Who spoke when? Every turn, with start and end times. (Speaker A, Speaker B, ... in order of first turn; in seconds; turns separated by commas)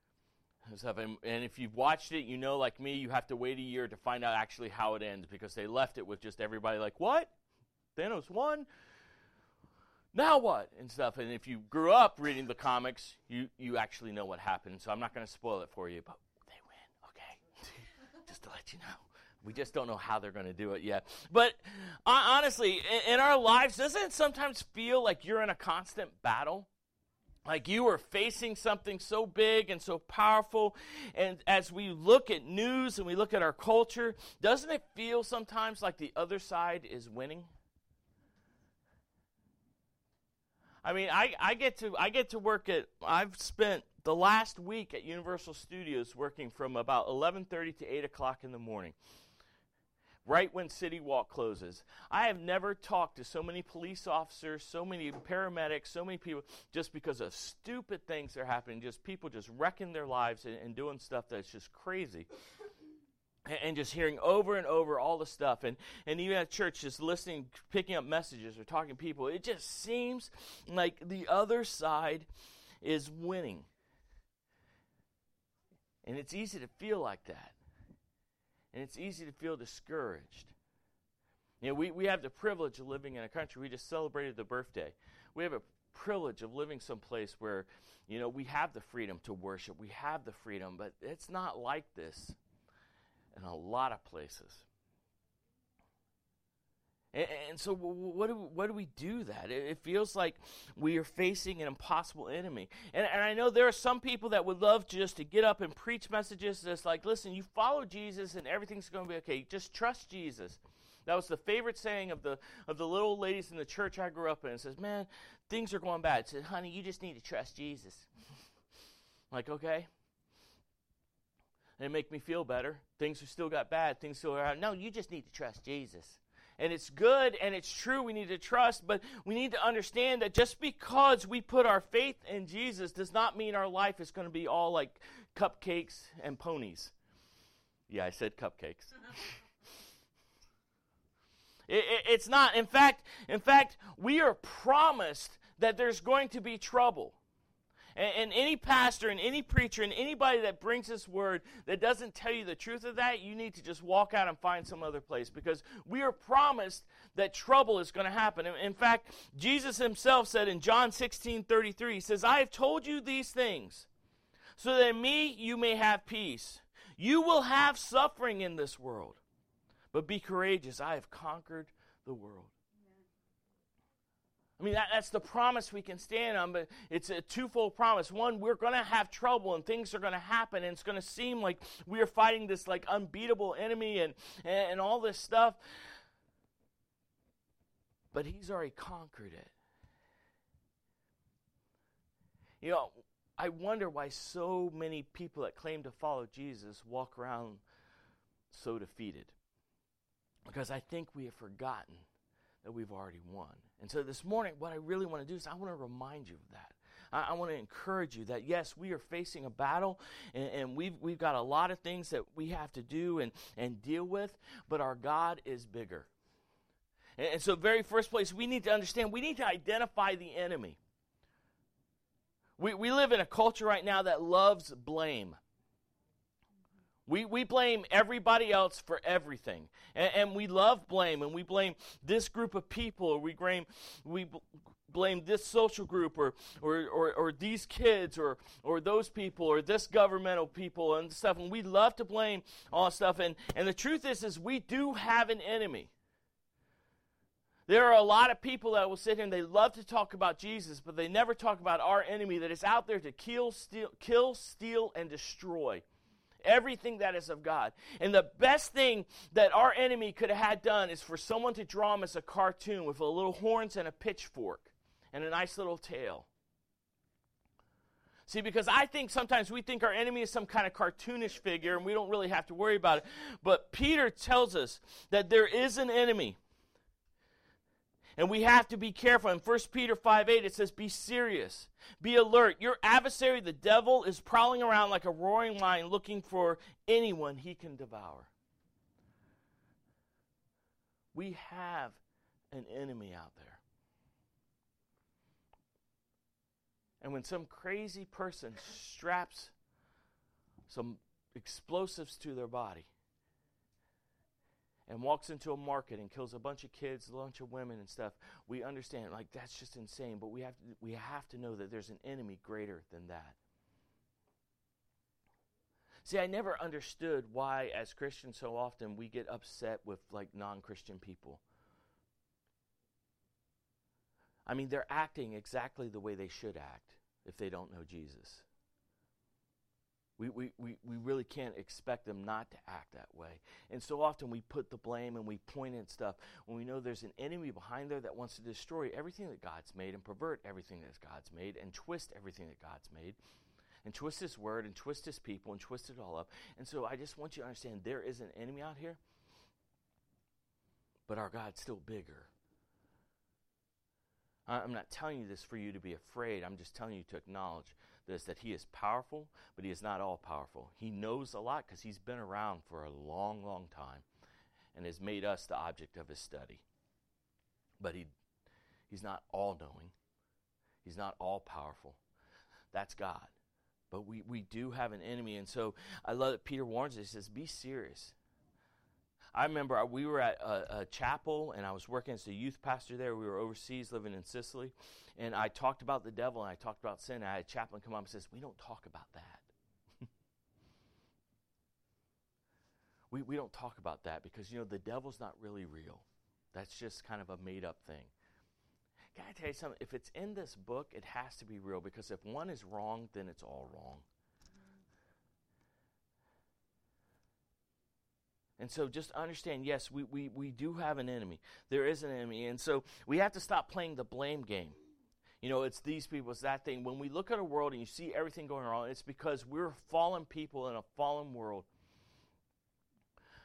Speaker A: 0.7-7.3, Speaker A: 8.0-8.7, Speaker A: 10.1-26.7, Speaker A: 27.4-37.5, Speaker A: 40.8-49.0, Speaker A: 50.2-62.3, Speaker A: 63.5-72.3, Speaker A: 72.8-73.7, Speaker A: 76.0-77.5, Speaker A: 78.7-80.5, Speaker A: 81.6-92.4, Speaker A: 93.3-94.7, Speaker A: 97.1-118.1, Speaker A: 119.3-119.9, Speaker A: 121.8-136.9, Speaker A: 137.9-139.4, Speaker A: 141.7-147.2, Speaker A: 147.9-163.9, Speaker A: 164.6-169.2, Speaker A: 169.9-172.5, Speaker A: 174.6-185.6, Speaker A: 188.1-189.5, Speaker A: 192.6-197.6, Speaker A: 198.5-199.3, Speaker A: 200.5-202.1, Speaker A: 202.6-216.1, Speaker A: 217.2-220.8, Speaker A: 222.6-225.4, Speaker A: 227.1-245.9, Speaker A: 247.7-255.8, Speaker A: 256.4-266.3, Speaker A: 268.3-276.4, Speaker A: 278.2-288.3, Speaker A: 291.1-292.0, Speaker A: 292.5-293.6, Speaker A: 297.0-299.5, Speaker A: 300.7-302.9, Speaker A: 304.9-313.4, Speaker A: 316.0-321.4, Speaker A: 324.4-328.4, Speaker A: 330.2-343.2, Speaker A: 343.8-349.0, Speaker A: 351.1-352.3, Speaker A: 354.5-364.0, Speaker A: 364.7-366.6, Speaker A: 367.8-368.1, Speaker A: 368.9-369.9, Speaker A: 370.8-372.0, Speaker A: 372.7-373.3, Speaker A: 373.9-378.1, Speaker A: 379.3-389.5, Speaker A: 393.1-398.1, Speaker A: 399.1-404.0, Speaker A: 408.6-414.8, Speaker A: 415.4-421.7